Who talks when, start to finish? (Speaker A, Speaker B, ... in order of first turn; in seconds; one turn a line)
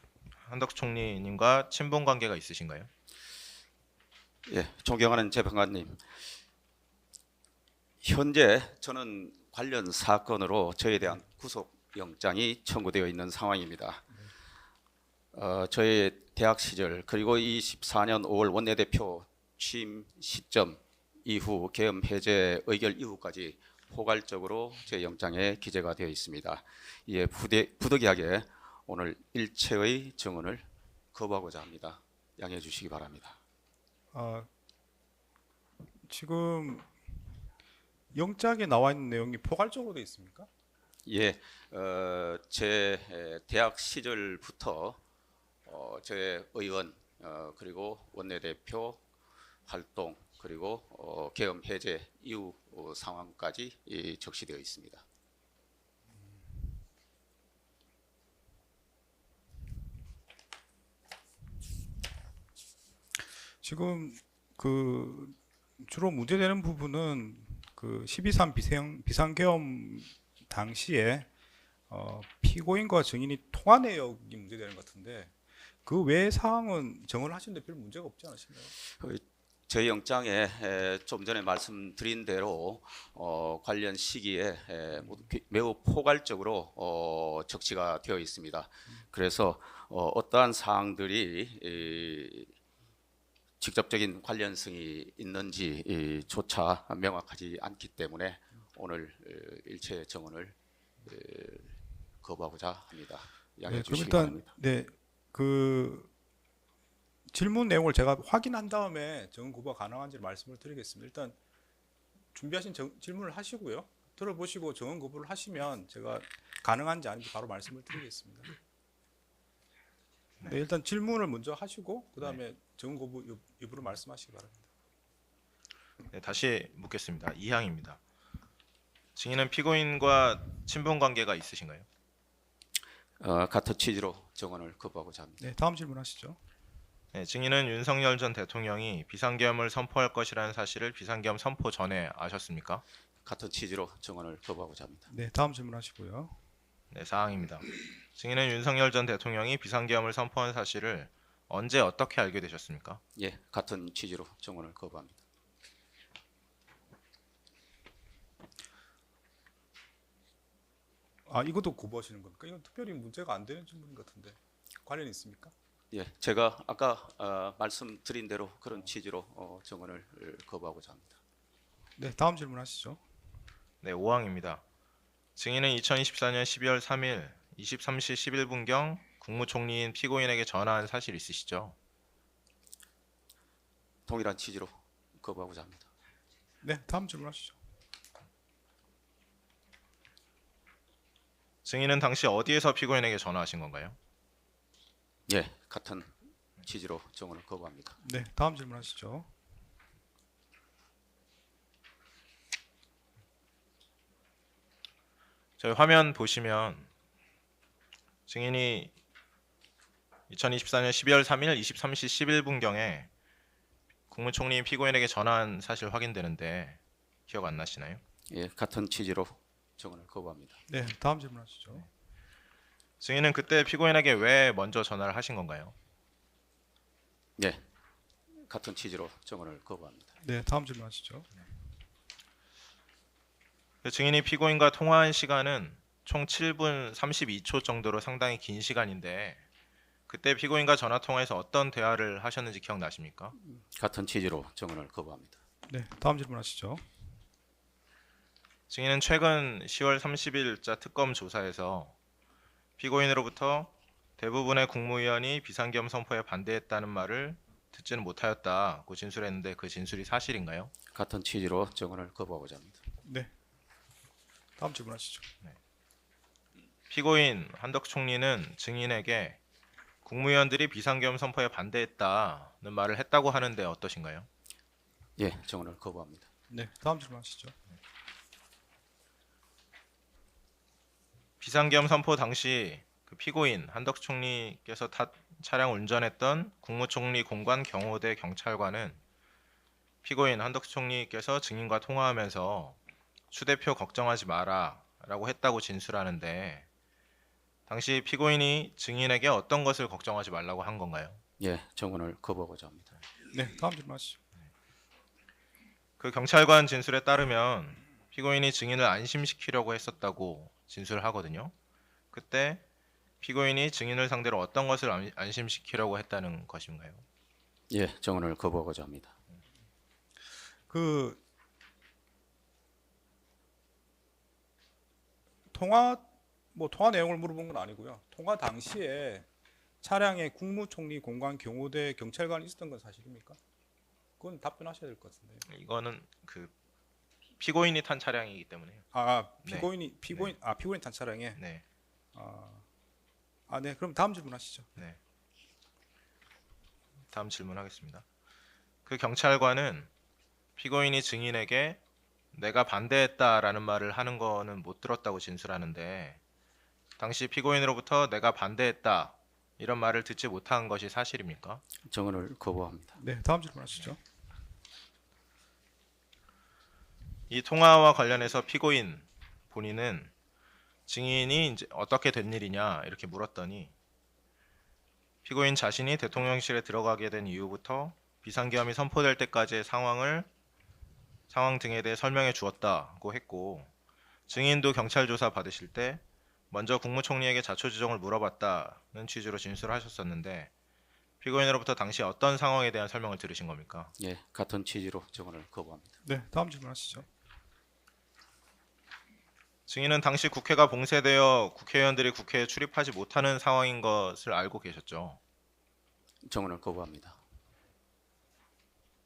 Speaker A: 0.4-2.9
Speaker B: 4.5-6.0
Speaker B: 8.0-14.1
Speaker B: 15.3-33.4
Speaker C: 34.1-34.5
Speaker C: 36.1-36.9
Speaker C: 38.1-40.5
Speaker B: 41.1-45.0
Speaker B: 45.6-49.0
Speaker B: 49.7-55.0
Speaker C: 63.6-71.3
Speaker C: 71.9-75.3
Speaker C: 75.8-78.7
Speaker B: 78.8-92.5
Speaker B: 93.6-104.5
Speaker C: 103.7-106.1
Speaker C: 107.3-111.3
Speaker C: 112.3-118.5
Speaker C: 120.4-124.7
Speaker A: 126.1-128.0
Speaker A: 129.2-131.8
Speaker B: 133.2-135.4
Speaker C: 135.4-136.4
Speaker A: 137.1-142.8
Speaker B: 143.2-145.1
Speaker C: 145.1-146.3
Speaker A: 146.9-153.0
Speaker B: 153.2-155.2
Speaker C: 161.3-165.5
Speaker B: 165.9-171.2
Speaker C: 172.0-173.0
Speaker A: 173.8-174.6
Speaker A: 175.3-181.8
Speaker B: 184.1-185.9
Speaker C: 186.6-187.6
Speaker A: 191.7-194.0
Speaker B: 195.3-198.0
Speaker C: 198.0-199.3
Speaker A: 205.6-206.9
Speaker A: 208.3-208.9
Speaker A: 210.3-213.1
Speaker A: 214.1-218.0
Speaker B: 218.3-220.6
Speaker C: 220.7-221.9
Speaker A: 223.0-225.7
Speaker B: 227.4-227.6
Speaker B: 228.4-230.1
Speaker C: 230.2-231.3
Speaker A: 233.8-239.4
Speaker A: 240.1-243.3
Speaker B: 243.4-245.4
Speaker C: 245.7-246.8
Speaker A: 248.7-251.9
Speaker A: 252.8-260.7
Speaker B: 260.9-262.8
Speaker C: 263.0-263.3
Speaker C: 264.6-265.3
Speaker A: 266.9-269.4
Speaker A: 270.0-274.3
Speaker B: 275.2-276.3
Speaker C: 276.5-277.5
Speaker A: 281.4-289.0
Speaker A: 290.0-292.8
Speaker A: 293.3-296.6
Speaker A: 297.7-301.2
Speaker B: 301.4-302.9
Speaker C: 303.3-304.2
Speaker A: 306.0-311.5
Speaker A: 312.1-312.6
Speaker A: 313.2-317.0
Speaker B: 317.7-319.1
Speaker C: 320.7-321.2
Speaker C: 325.5-329.2
Speaker C: 329.8-333.4
Speaker C: 334.2-335.4
Speaker A: 335.4-336.5
Speaker A: 337.4-338.9
Speaker C: 338.9-341.4
Speaker A: 339.4-340.4
Speaker A: 341.4-341.6
Speaker C: 342.1-342.6
Speaker C: 343.5-344.7
Speaker A: 347.1-348.0
Speaker A: 348.9-349.9
Speaker A: 350.6-351.8
Speaker A: 352.3-356.2
Speaker A: 357.0-361.6
Speaker B: 361.9-363.0
Speaker C: 363.0-364.0
Speaker A: 367.3-370.1
Speaker A: 370.9-373.7
Speaker A: 375.2-380.3
Speaker A: 381.3-383.7
Speaker A: 384.3-390.5
Speaker A: 391.2-393.9
Speaker B: 394.0-395.9
Speaker C: 396.0-397.1
Speaker A: 399.7-405.2
Speaker B: 406.2-407.2